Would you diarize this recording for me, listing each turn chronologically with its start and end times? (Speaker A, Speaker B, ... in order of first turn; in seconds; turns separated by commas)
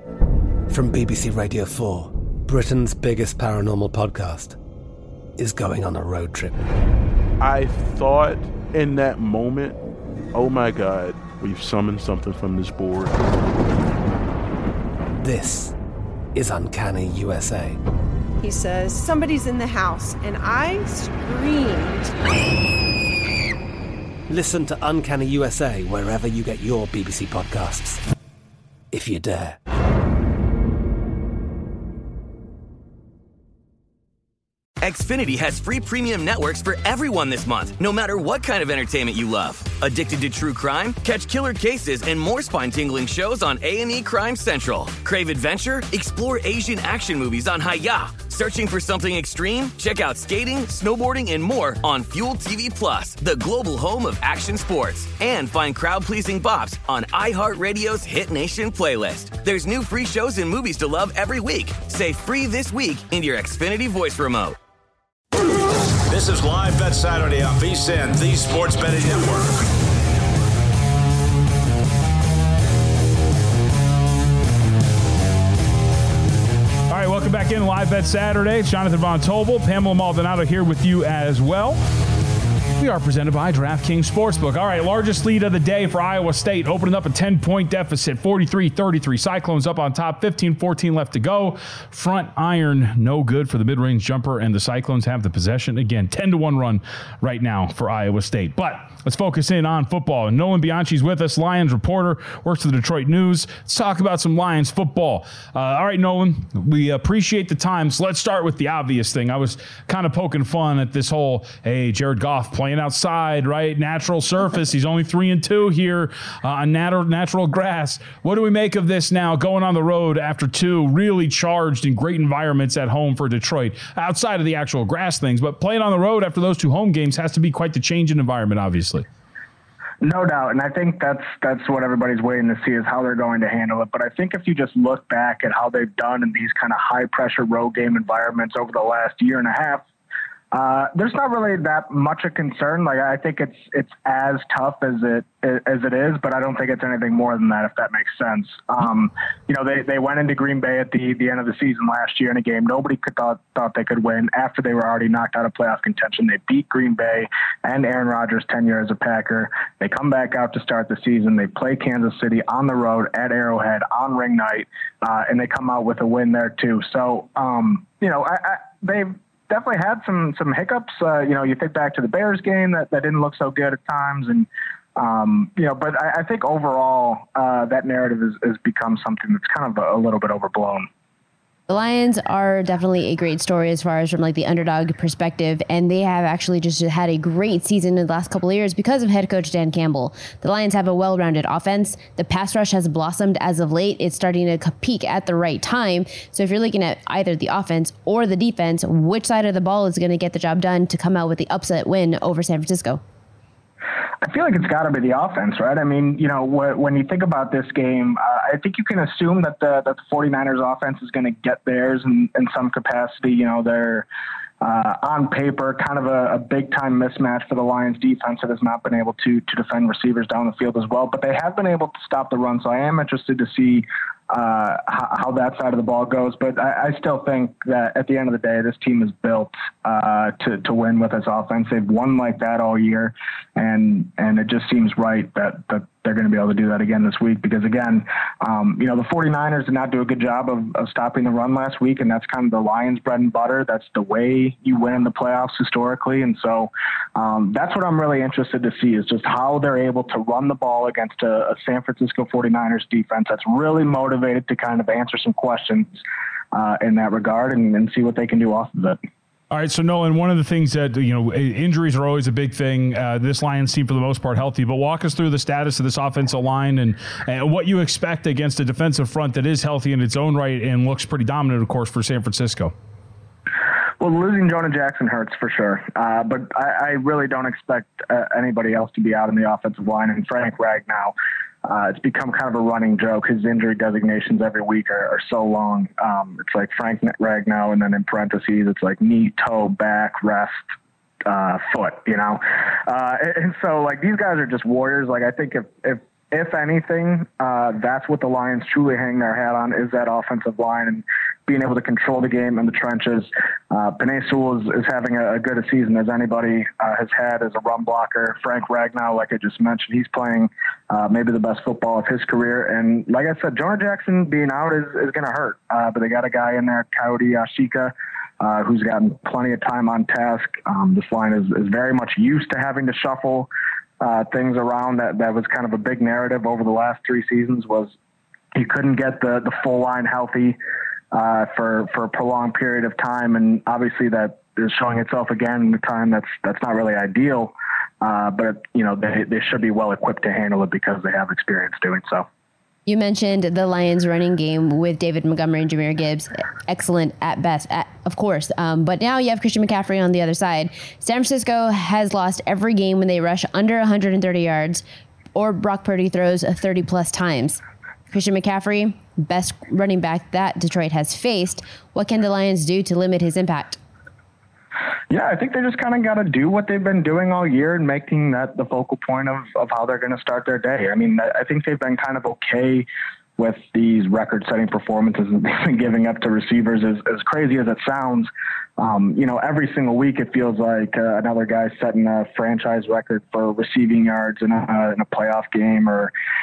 Speaker A: 0.7-4.6, Speaker A: 5.4-6.6, Speaker B: 7.4-9.8, Speaker B: 10.3-13.2, Speaker A: 15.2-15.7, Speaker A: 16.3-17.8, Speaker C: 18.4-22.1, Speaker A: 24.3-28.0, Speaker A: 28.9-29.6, Speaker D: 34.8-64.6, Speaker E: 65.4-69.7, Speaker F: 76.9-81.8, Speaker F: 82.8-129.1, Speaker G: 130.0-139.8, Speaker G: 140.5-180.9, Speaker H: 181.7-203.0, Speaker G: 204.2-214.1, Speaker G: 214.6-255.9, Speaker G: 256.5-259.0, Speaker F: 259.5-272.7, Speaker G: 274.0-290.6, Speaker G: 291.2-323.5, Speaker G: 324.0-327.9, Speaker G: 328.6-330.6, Speaker G: 331.1-342.3, Speaker H: 342.9-354.8, Speaker H: 355.4-357.6, Speaker H: 358.1-363.8, Speaker G: 365.1-372.9, Speaker G: 373.4-386.1